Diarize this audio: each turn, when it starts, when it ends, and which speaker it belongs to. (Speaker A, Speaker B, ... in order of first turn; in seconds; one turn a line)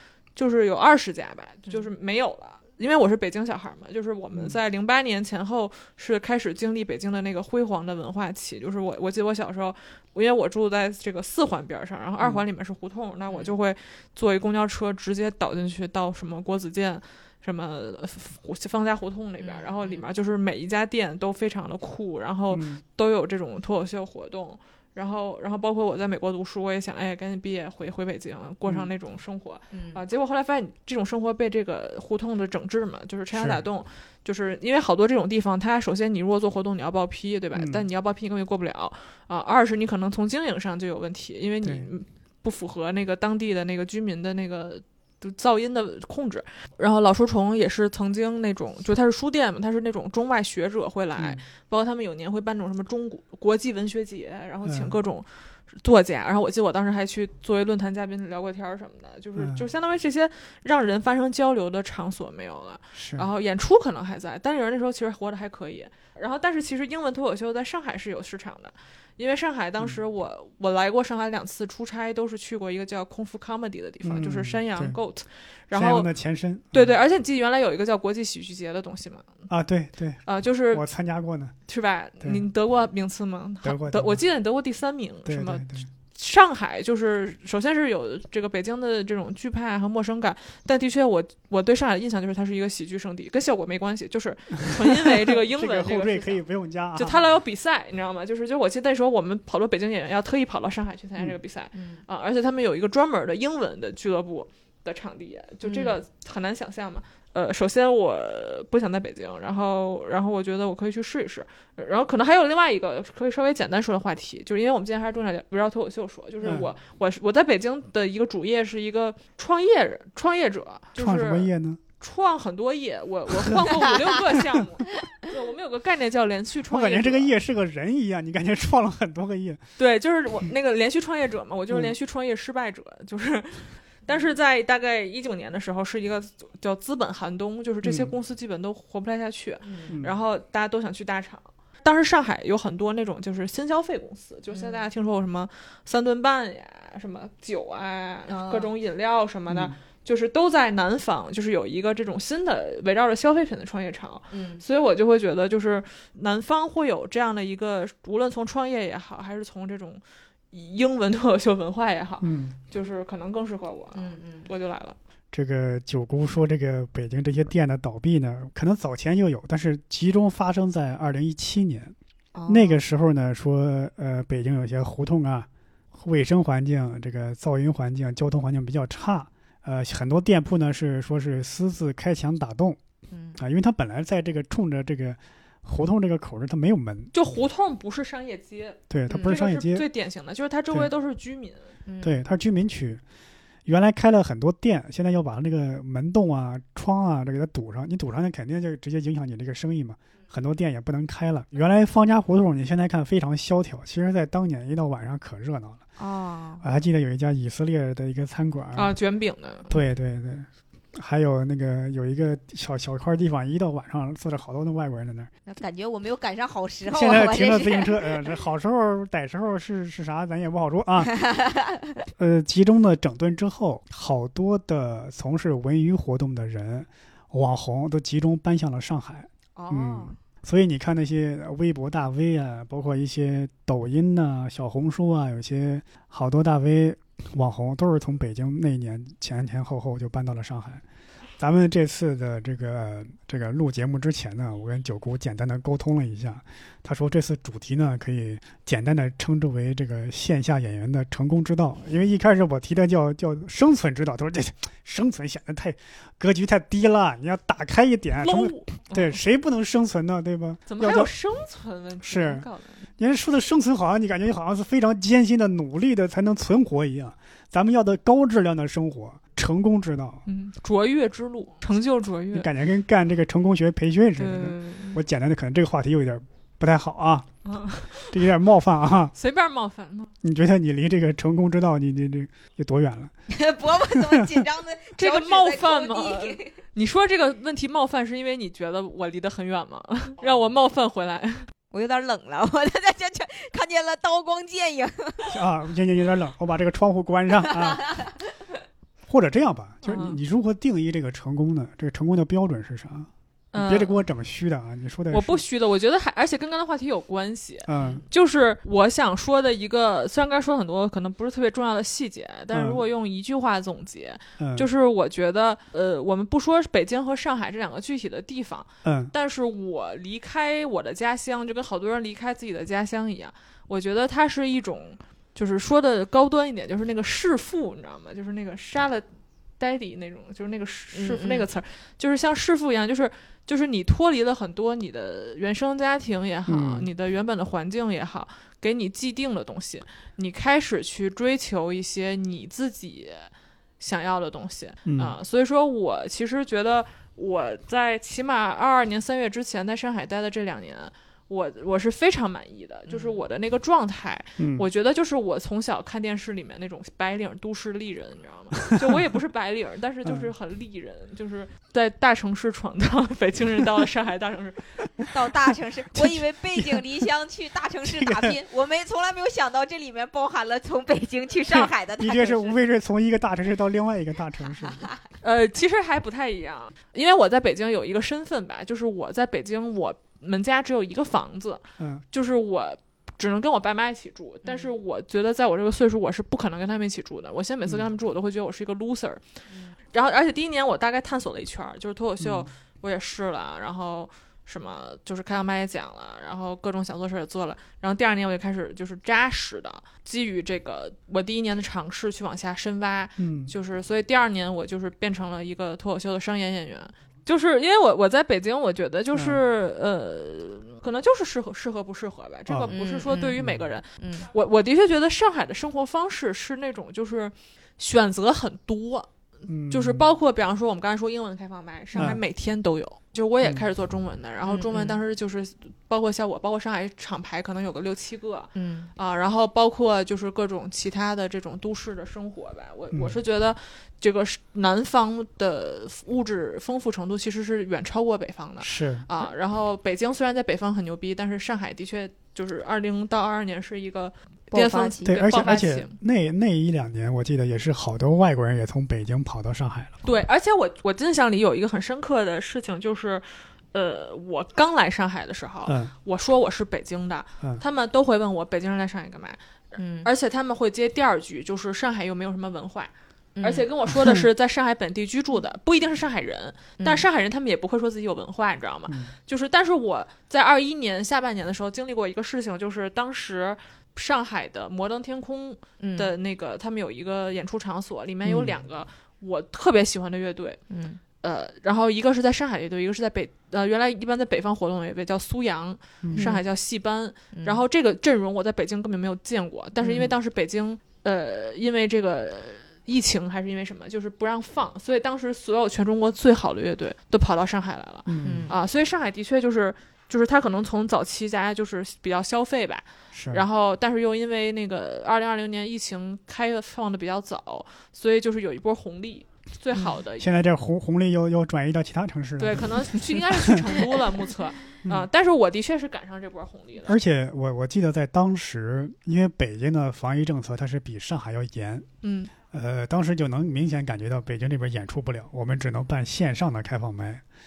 Speaker A: 0.3-76.1
Speaker B: 13.3-13.5
Speaker B: 19.4-20.0
Speaker C: 22.5-22.8
Speaker B: 29.7-30.0
Speaker C: 33.3-33.6
Speaker C: 37.5-37.8
Speaker C: 41.6-41.9
Speaker C: 51.2-51.4
Speaker C: 54.7-55.0
Speaker C: 59.4-59.6
Speaker C: 62.9-63.3
Speaker C: 74.0-75.0
Speaker C: 75.7-76.9
Speaker A: 76.7-79.3
Speaker C: 79.5-81.5
Speaker A: 80.2-80.8
Speaker A: 81.7-96.4
Speaker C: 83.6-84.2
Speaker C: 85.2-85.9
Speaker C: 94.9-97.2
Speaker A: 97.0-127.3
Speaker B: 101.7-102.0
Speaker B: 105.6-106.0
Speaker C: 116.4-116.7
Speaker C: 121.0-121.8
Speaker C: 126.7-129.6
Speaker A: 129.8-164.9
Speaker C: 137.8-138.1
Speaker B: 139.6-139.9
Speaker B: 144.5-144.8
Speaker B: 148.3-148.7
Speaker C: 149.5-149.7
Speaker B: 154.3-154.6
Speaker C: 162.2-162.5
Speaker B: 163.9-164.5
Speaker C: 165.3-171.9
Speaker B: 172.3-172.8
Speaker C: 172.5-182.8
Speaker B: 183.1-183.4
Speaker C: 183.4-187.1
Speaker A: 187.1-191.7
Speaker C: 188.9-189.8
Speaker B: 191.9-192.2
Speaker C: 192.0-193.0
Speaker C: 193.7-205.8
Speaker B: 206.0-206.6
Speaker C: 206.6-208.9
Speaker A: 208.7-209.7
Speaker C: 209.7-215.3
Speaker B: 215.4-218.2
Speaker C: 216.9-221.1
Speaker B: 221.1-221.9
Speaker C: 222.2-240.8
Speaker B: 229.6-230.1
Speaker C: 241.4-261.1
Speaker A: 258.2-259.2
Speaker A: 260.7-262.8
Speaker C: 262.0-262.5
Speaker C: 263.0-270.2
Speaker A: 270.2-272.5
Speaker C: 272.3-277.3
Speaker A: 274.2-275.0
Speaker A: 277.4-278.2
Speaker C: 278.1-279.1
Speaker A: 279.1-280.1
Speaker C: 280.2-283.1
Speaker B: 283.3-286.6
Speaker C: 283.9-284.4
Speaker A: 285.0-291.5
Speaker B: 291.7-295.4
Speaker C: 295.3-297.9
Speaker B: 297.8-298.1
Speaker C: 299.1-305.4
Speaker A: 299.8-300.2
Speaker A: 303.5-304.0
Speaker A: 305.1-329.0
Speaker C: 307.6-308.0
Speaker C: 312.5-312.8
Speaker C: 314.4-314.7
Speaker C: 318.8-319.1
Speaker A: 329.6-364.8
Speaker B: 330.9-331.4
Speaker C: 336.5-336.9
Speaker C: 344.9-345.1
Speaker B: 352.9-353.1
Speaker C: 354.4-354.6
Speaker B: 365.1-372.6
Speaker C: 365.9-366.9
Speaker C: 367.9-368.4
Speaker C: 371.4-374.9
Speaker B: 374.5-375.0
Speaker A: 375.2-389.2
Speaker C: 381.8-382.0
Speaker A: 389.9-419.1
Speaker C: 392.2-392.5
Speaker C: 403.2-403.5
Speaker C: 409.1-409.4
Speaker C: 412.5-412.8
Speaker B: 412.7-413.4
Speaker C: 413.4-413.7
Speaker B: 414.0-414.3
Speaker C: 419.5-420.0
Speaker A: 419.7-446.0
Speaker C: 421.9-422.2
Speaker B: 424.4-425.0
Speaker B: 428.6-428.9
Speaker C: 438.6-439.1
Speaker B: 444.5-445.2
Speaker C: 445.0-450.0
Speaker A: 450.0-459.4
Speaker C: 455.7-455.9
Speaker B: 459.8-460.1
Speaker A: 460.0-480.6
Speaker B: 463.4-463.7
Speaker B: 466.8-467.0
Speaker B: 475.8-476.1
Speaker C: 478.2-478.5
Speaker B: 480.7-481.0
Speaker A: 481.2-510.3
Speaker C: 486.0-486.3
Speaker B: 486.1-486.4
Speaker B: 487.3-487.6
Speaker B: 489.8-490.1
Speaker C: 498.1-498.5
Speaker B: 498.2-498.5
Speaker C: 503.1-503.4
Speaker C: 510.2-513.6
Speaker A: 512.4-516.9
Speaker C: 516.9-521.9
Speaker A: 522.0-522.3
Speaker C: 522.5-527.2